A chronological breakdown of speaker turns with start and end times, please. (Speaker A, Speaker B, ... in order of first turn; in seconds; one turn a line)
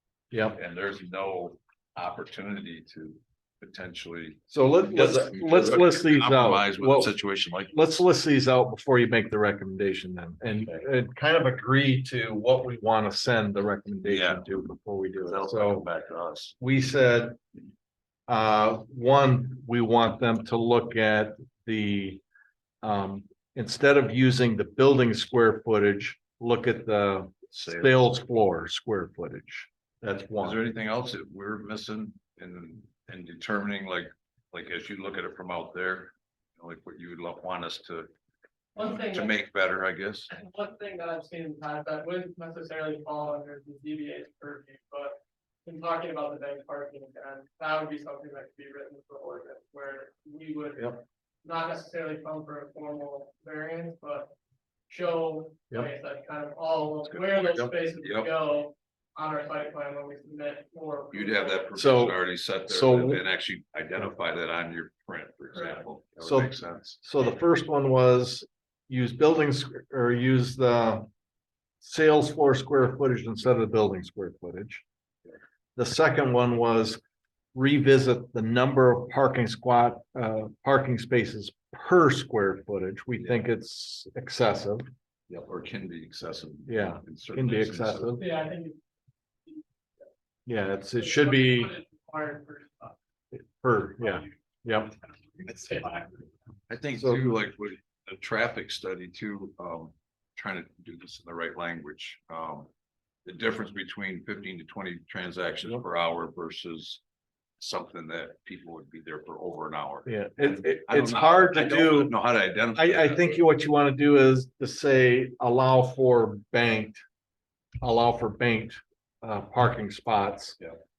Speaker A: 0.3-0.6
Speaker B: 0.5-7.8
Speaker A: 4.5-7.2
Speaker A: 7.7-15.9
Speaker B: 14.1-14.5
Speaker B: 15.3-16.6
Speaker A: 16.6-17.4
Speaker A: 18.3-22.2
Speaker A: 22.8-30.6
Speaker B: 27.6-27.9
Speaker B: 30.4-38.1
Speaker C: 38.8-39.4
Speaker B: 39.0-40.3
Speaker C: 40.3-54.3
Speaker C: 54.9-61.8
Speaker B: 57.1-58.3
Speaker B: 61.1-67.0
Speaker A: 61.8-63.2
Speaker C: 65.5-65.8
Speaker A: 66.2-71.1
Speaker A: 71.8-74.8
Speaker A: 75.8-77.0
Speaker A: 77.5-84.8
Speaker B: 85.3-88.1
Speaker A: 86.7-88.2
Speaker C: 88.1-88.8
Speaker A: 90.5-91.7
Speaker C: 91.0-93.0
Speaker A: 93.3-94.9
Speaker C: 95.3-96.3
Speaker B: 96.7-102.7
Speaker A: 97.0-97.3
Speaker B: 103.2-107.0
Speaker B: 107.6-113.4
Speaker A: 110.1-112.1
Speaker A: 112.7-117.0
Speaker A: 117.8-120.6